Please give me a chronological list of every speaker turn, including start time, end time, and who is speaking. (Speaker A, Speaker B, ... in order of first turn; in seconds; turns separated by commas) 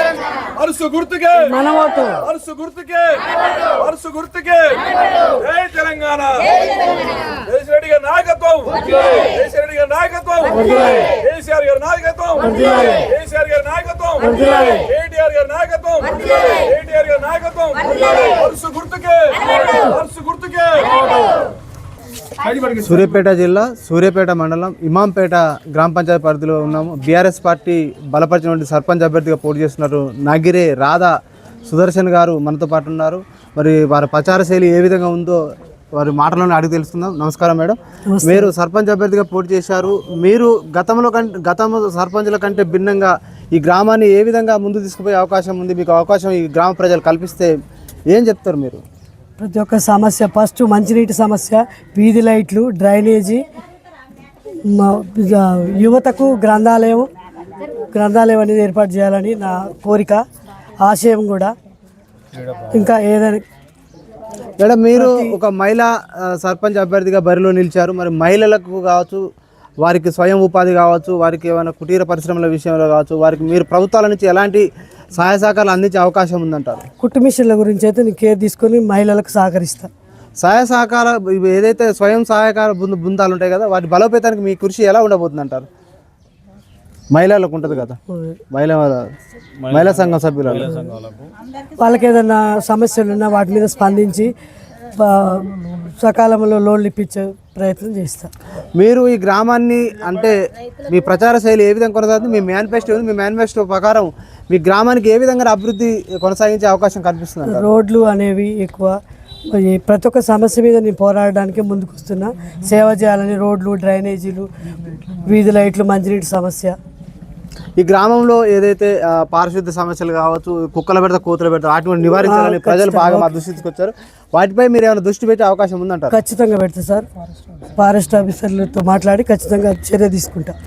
Speaker A: 0.5-1.5, Speaker B: 1.4-2.3, Speaker A: 2.3-6.6, Speaker A: 7.3-10.6, Speaker B: 10.5-11.2, Speaker A: 11.1-12.5, Speaker B: 12.4-13.1, Speaker A: 13.1-21.4, Speaker B: 14.2-14.9, Speaker A: 22.4-22.8, Speaker C: 22.8-31.1, Speaker C: 31.6-35.4, Speaker C: 36.0-47.5, Speaker B: 38.1-38.5, Speaker C: 48.1-48.8, Speaker B: 49.4-53.5, Speaker B: 54.7-57.1, Speaker B: 57.9-60.2, Speaker B: 60.8-61.5, Speaker B: 62.7-63.4, Speaker C: 64.6-69.2, Speaker B: 64.9-65.4, Speaker C: 69.8-76.9, Speaker B: 77.0-79.9, Speaker C: 80.4-85.7, Speaker C: 87.1-88.0, Speaker B: 88.1-88.4, Speaker C: 88.5-89.1, Speaker C: 89.7-90.7, Speaker B: 91.8-94.3, Speaker B: 95.0-98.3, Speaker C: 98.8-107.7, Speaker B: 107.4-109.0, Speaker B: 109.5-116.8, Speaker C: 117.8-126.1, Speaker B: 122.2-123.3, Speaker B: 126.1-127.0, Speaker B: 127.8-130.6